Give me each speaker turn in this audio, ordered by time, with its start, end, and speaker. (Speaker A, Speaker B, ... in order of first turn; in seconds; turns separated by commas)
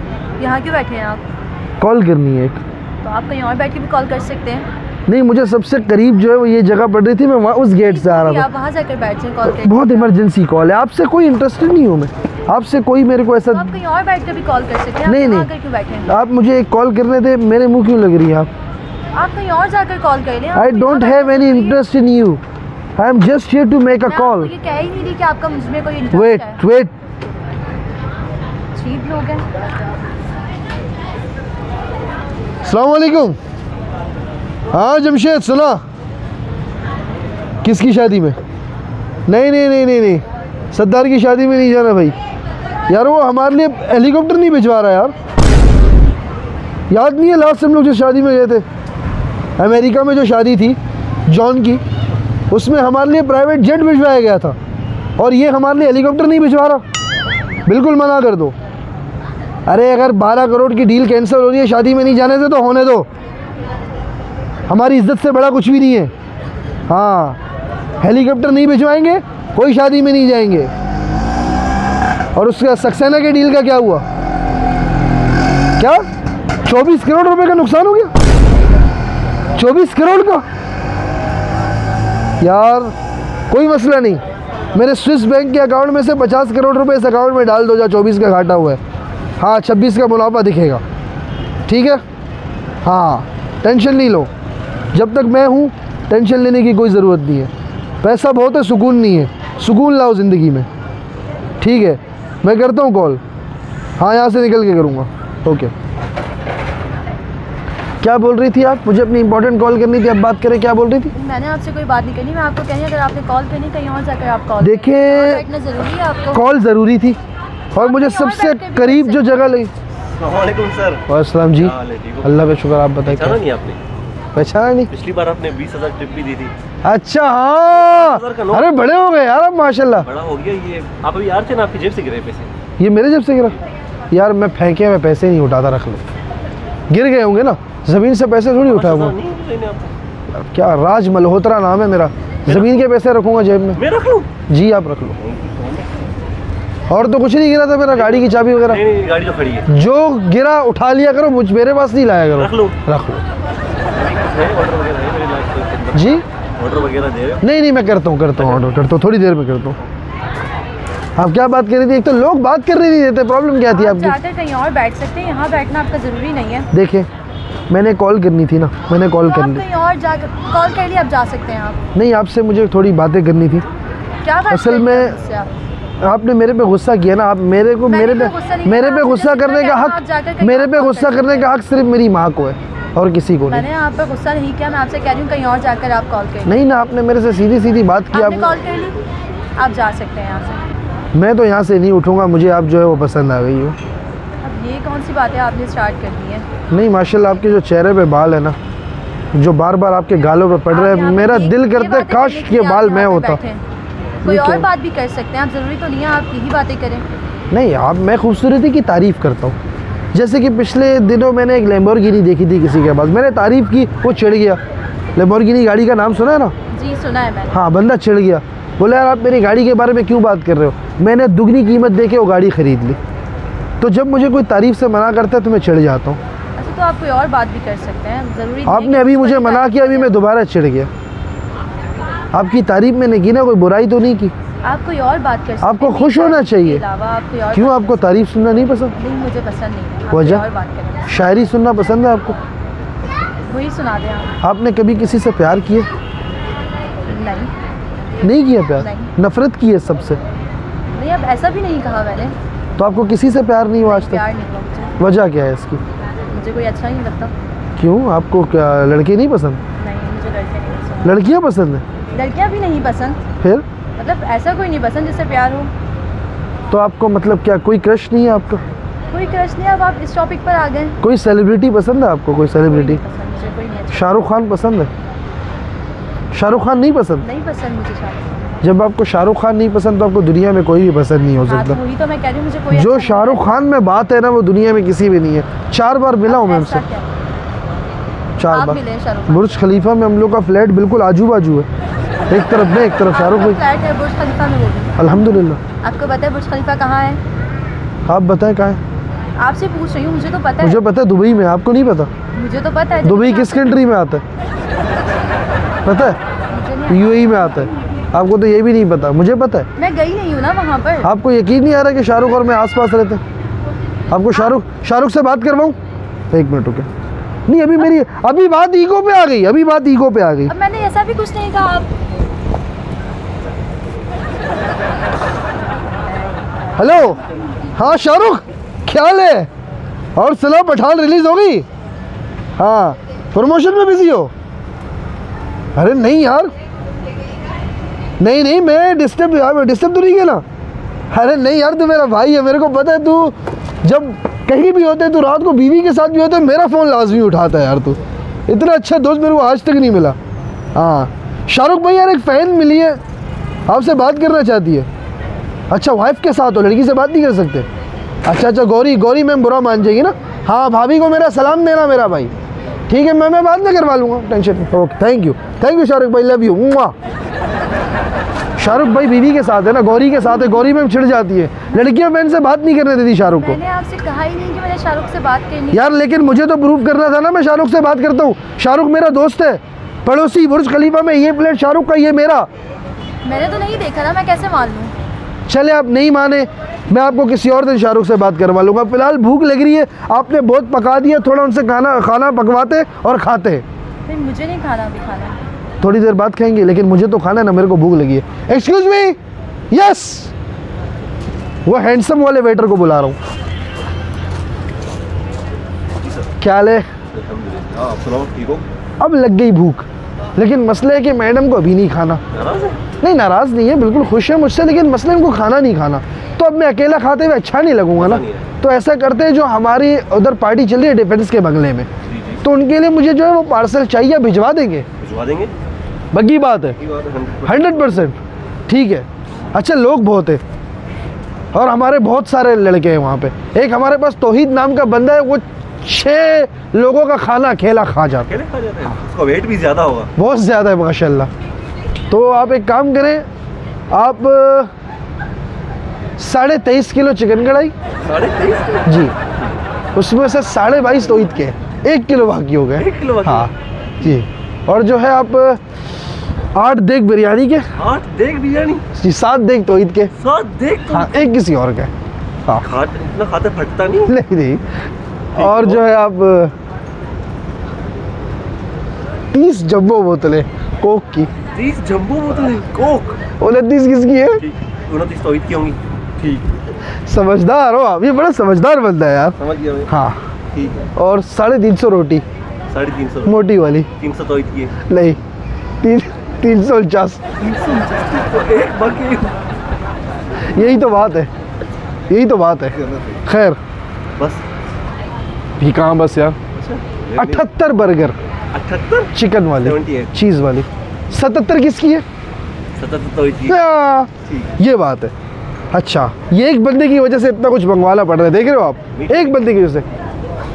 Speaker A: 0.4-1.2, Speaker B: 1.8-2.6, Speaker A: 3.0-4.7, Speaker B: 5.1-8.4, Speaker A: 7.8-10.1, Speaker B: 9.4-13.7, Speaker A: 13.5-16.1, Speaker B: 15.0-15.5, Speaker B: 16.1-18.5, Speaker A: 19.1-21.8, Speaker B: 20.5-22.4, Speaker B: 23.0-24.5, Speaker A: 24.1-26.6, Speaker B: 26.1-26.9, Speaker A: 28.7-29.4, Speaker B: 32.6-33.4, Speaker B: 34.7-35.8, Speaker B: 37.6-38.4, Speaker B: 39.3-42.1, Speaker B: 42.9-45.1, Speaker B: 46.9-48.6, Speaker B: 49.6-51.8, Speaker B: 52.5-54.5, Speaker B: 55.2-56.8, Speaker B: 57.6-58.5, Speaker B: 59.6-63.1, Speaker B: 64.7-66.1, Speaker B: 66.9-67.4, Speaker B: 68.0-70.7, Speaker B: 72.3-74.0, Speaker B: 75.8-76.0, Speaker B: 76.6-78.1, Speaker B: 79.5-80.4, Speaker B: 82.4-82.9, Speaker B: 83.5-84.2, Speaker B: 84.7-88.8, Speaker B: 89.4-90.8, Speaker B: 91.7-92.0, Speaker B: 92.8-94.3, Speaker B: 94.9-97.5, Speaker B: 98.0-100.7, Speaker B: 101.6-103.2, Speaker B: 104.0-105.7, Speaker B: 108.0-111.1, Speaker A: 111.1-116.4, Speaker B: 114.6-115.4, Speaker B: 116.3-117.2, Speaker B: 117.7-119.7, Speaker A: 117.8-119.4, Speaker C: 120.2-121.0, Speaker B: 121.1-123.4, Speaker C: 121.5-122.3, Speaker C: 123.0-123.8, Speaker B: 124.3-124.9, Speaker C: 124.9-126.5, Speaker B: 126.8-130.1, Speaker C: 127.7-128.7, Speaker C: 130.0-132.5, Speaker B: 132.8-133.6, Speaker B: 134.1-136.0, Speaker B: 136.9-139.1, Speaker C: 138.6-139.9, Speaker B: 140.3-143.8, Speaker C: 143.8-144.3, Speaker B: 144.5-145.2, Speaker C: 145.2-145.8, Speaker B: 146.9-148.8, Speaker C: 148.0-149.7, Speaker B: 149.7-153.2, Speaker C: 152.3-152.8, Speaker C: 153.9-157.4, Speaker B: 155.9-156.2, Speaker B: 157.4-159.8, Speaker B: 161.2-164.1, Speaker A: 163.7-166.7, Speaker B: 166.7-167.1, Speaker B: 167.7-169.6, Speaker A: 169.2-171.8, Speaker B: 171.9-173.6, Speaker A: 174.2-175.5, Speaker B: 174.5-175.2, Speaker B: 176.0-183.7, Speaker A: 177.8-181.5, Speaker A: 183.5-186.6, Speaker B: 186.4-188.5, Speaker A: 188.1-189.0, Speaker A: 189.6-190.6, Speaker B: 191.1-193.8, Speaker A: 194.4-196.4, Speaker B: 196.7-198.6, Speaker B: 199.3-203.4, Speaker A: 200.7-203.6, Speaker B: 204.2-204.7, Speaker A: 204.2-207.0, Speaker B: 207.5-209.6, Speaker B: 210.1-214.6, Speaker B: 215.2-216.5, Speaker A: 216.7-217.6, Speaker B: 217.5-223.0, Speaker B: 223.8-226.2, Speaker A: 226.6-230.1, Speaker B: 228.7-230.9, Speaker B: 232.3-234.3, Speaker A: 234.6-238.0, Speaker B: 235.6-236.8, Speaker B: 237.5-238.9, Speaker A: 238.9-241.0, Speaker B: 240.1-240.4, Speaker B: 241.1-242.4, Speaker A: 243.4-244.3, Speaker B: 244.4-245.9, Speaker A: 247.1-247.5, Speaker B: 248.2-250.2, Speaker A: 248.7-249.1, Speaker A: 250.9-252.3, Speaker B: 252.8-254.2, Speaker A: 253.8-254.9, Speaker B: 255.0-255.8, Speaker A: 256.3-257.3, Speaker B: 257.8-259.6, Speaker A: 259.8-261.2, Speaker B: 261.0-261.8, Speaker A: 262.1-263.2, Speaker A: 264.0-265.7, Speaker B: 266.7-268.6, Speaker A: 269.1-271.0, Speaker B: 271.0-273.0, Speaker A: 272.6-274.2, Speaker B: 273.9-274.9, Speaker B: 276.3-277.2, Speaker A: 277.2-278.4, Speaker B: 278.6-281.8, Speaker A: 281.5-283.6, Speaker B: 282.7-286.8, Speaker A: 286.2-287.1, Speaker B: 288.4-291.7, Speaker A: 288.5-289.5, Speaker B: 292.3-293.6, Speaker A: 293.1-294.9, Speaker B: 295.0-295.6, Speaker A: 295.8-297.2, Speaker B: 298.1-298.8, Speaker A: 299.4-300.8, Speaker B: 300.6-302.1, Speaker A: 302.3-303.8, Speaker B: 303.0-304.2, Speaker B: 305.9-306.2, Speaker A: 306.5-307.6, Speaker B: 306.9-309.6, Speaker A: 309.8-311.1, Speaker B: 311.0-313.2, Speaker B: 314.1-315.8, Speaker B: 316.3-316.9, Speaker B: 317.5-320.5, Speaker A: 320.5-321.9, Speaker B: 326.8-327.2, Speaker B: 327.8-329.5, Speaker B: 330.2-331.6, Speaker B: 332.6-334.3, Speaker B: 335.8-336.5, Speaker B: 338.2-340.4, Speaker B: 341.1-350.2, Speaker B: 350.7-353.0, Speaker B: 353.7-354.9, Speaker B: 355.7-357.7, Speaker B: 358.2-362.3, Speaker B: 362.9-366.9, Speaker B: 368.6-373.6, Speaker A: 373.3-375.9, Speaker B: 375.7-382.5, Speaker A: 383.2-384.9, Speaker B: 385.5-393.6, Speaker A: 394.1-395.4, Speaker B: 395.8-399.2, Speaker B: 399.7-400.3, Speaker B: 401.6-403.2, Speaker B: 406.4-406.9, Speaker C: 407.1-408.6, Speaker B: 409.0-409.9, Speaker B: 410.4-412.2, Speaker C: 412.3-412.8, Speaker B: 413.0-421.9, Speaker C: 417.9-418.4, Speaker C: 422.1-422.4, Speaker B: 422.4-424.9, Speaker C: 425.0-425.5, Speaker B: 426.1-426.8, Speaker C: 426.8-427.7, Speaker B: 427.4-428.1, Speaker B: 428.7-430.4, Speaker B: 431.5-438.4, Speaker C: 438.3-440.1, Speaker B: 440.2-441.3, Speaker B: 442.1-443.2, Speaker B: 443.9-444.7, Speaker B: 446.2-447.7, Speaker C: 448.0-449.6, Speaker B: 448.8-449.1, Speaker B: 449.9-455.6, Speaker C: 452.8-453.5, Speaker B: 456.5-457.7, Speaker C: 457.8-458.8, Speaker B: 459.0-460.1, Speaker C: 460.2-461.1, Speaker B: 460.9-461.9, Speaker C: 462.6-464.1, Speaker B: 464.1-464.6, Speaker C: 465.3-465.8, Speaker B: 465.4-466.5, Speaker B: 469.3-471.3, Speaker C: 471.5-473.2, Speaker B: 473.4-474.4, Speaker C: 474.4-476.6, Speaker B: 477.1-479.4, Speaker C: 479.4-479.9, Speaker B: 479.9-480.2, Speaker C: 480.5-480.9, Speaker B: 480.9-482.2, Speaker C: 482.7-483.4, Speaker B: 483.2-483.9, Speaker C: 484.0-484.7, Speaker B: 484.8-485.2, Speaker B: 485.8-487.2, Speaker C: 487.4-489.4, Speaker B: 490.4-491.3, Speaker B: 492.1-493.6, Speaker C: 492.8-493.2, Speaker B: 495.6-496.4, Speaker C: 496.6-497.4, Speaker B: 497.2-498.1, Speaker C: 498.5-500.1, Speaker B: 499.1-502.0, Speaker C: 502.8-503.6, Speaker B: 503.5-505.1, Speaker C: 504.3-504.5, Speaker B: 505.7-509.9, Speaker C: 508.9-509.4